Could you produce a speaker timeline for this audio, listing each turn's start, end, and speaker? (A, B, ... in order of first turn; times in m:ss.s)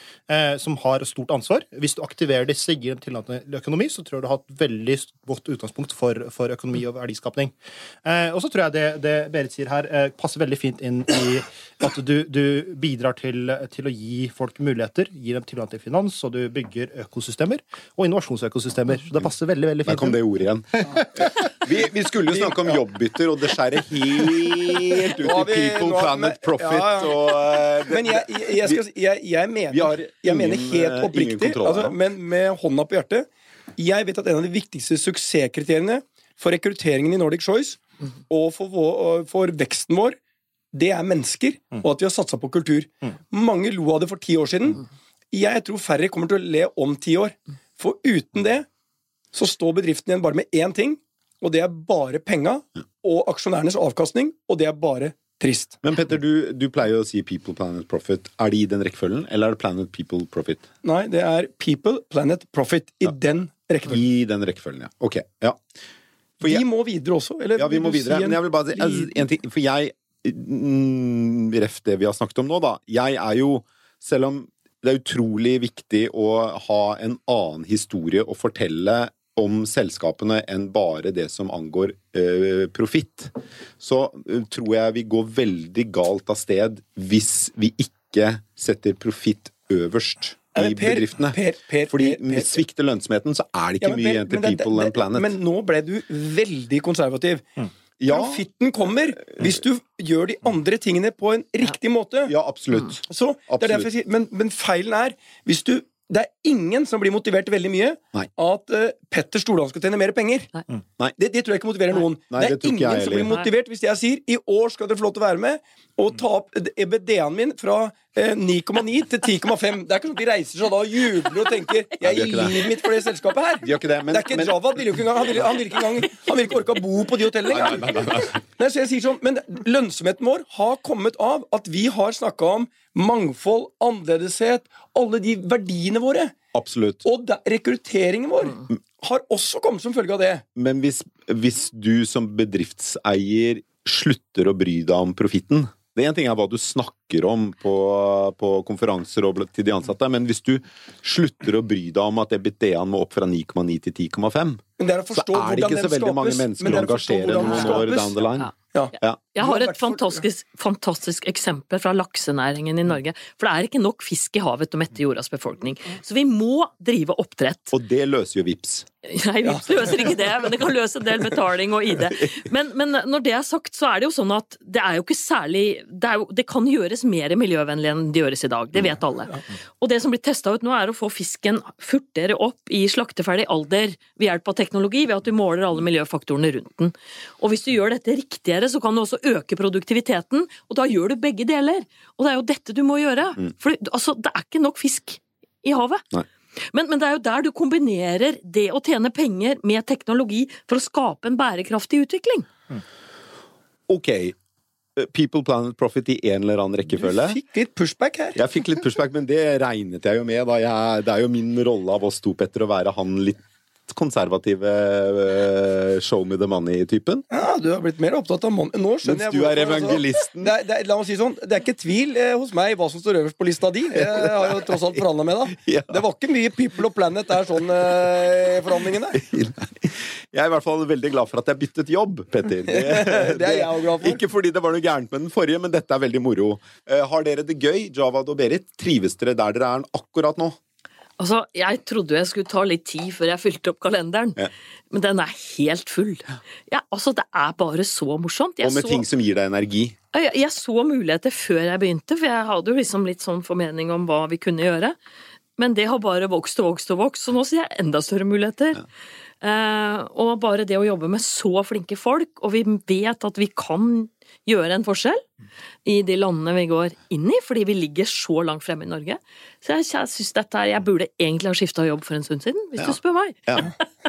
0:00.3-0:20.2 A
0:19.8-0:28.8 B
0:22.3-0:22.8 C
0:25.2-0:40.2 C
0:29.7-0:32.0 B
0:40.7-0:48.7 C
0:49.3-0:55.8 C
0:55.8-1:00.7 B
1:00.8-1:04.0 C
1:03.9-1:05.6 B
1:06.4-1:09.2 C
1:07.6-1:35.3 B
1:30.6-1:32.6 C
1:33.8-1:37.5 C
1:38.0-1:38.4 B
1:38.1-1:42.4 C
1:42.3-1:43.9 B
1:43.1-1:50.5 C
1:51.2-2:16.4 C
1:52.3-1:53.4 B
2:02.0-2:02.6 B
2:03.6-2:04.6 B
2:07.5-2:08.4 B
2:16.5-2:17.0 B
2:17.0-2:20.4 C
2:20.6-2:39.2 B
2:34.8-2:38.2 C
2:38.7-2:40.2 C
2:39.4-2:47.8 D
2:47.7-2:48.9 B
2:49.0-3:16.0 D
3:16.7-3:22.5 D
3:23.9-3:24.4 B
3:25.0-3:27.4 B
3:27.0-3:28.4 C
3:28.4-3:37.3 B
3:37.3-3:49.2 C
3:39.0-3:40.6 B
3:44.0-3:44.8 B
3:45.5-3:46.0 B
3:49.1-4:00.6 B
3:52.7-3:54.2 C
4:01.2-4:04.4 D
4:04.9-4:09.0 D
4:08.6-4:10.0 B
4:10.1-4:15.0 D
4:15.6-4:18.8 D
4:19.4-4:25.2 D
4:25.8-4:33.7 D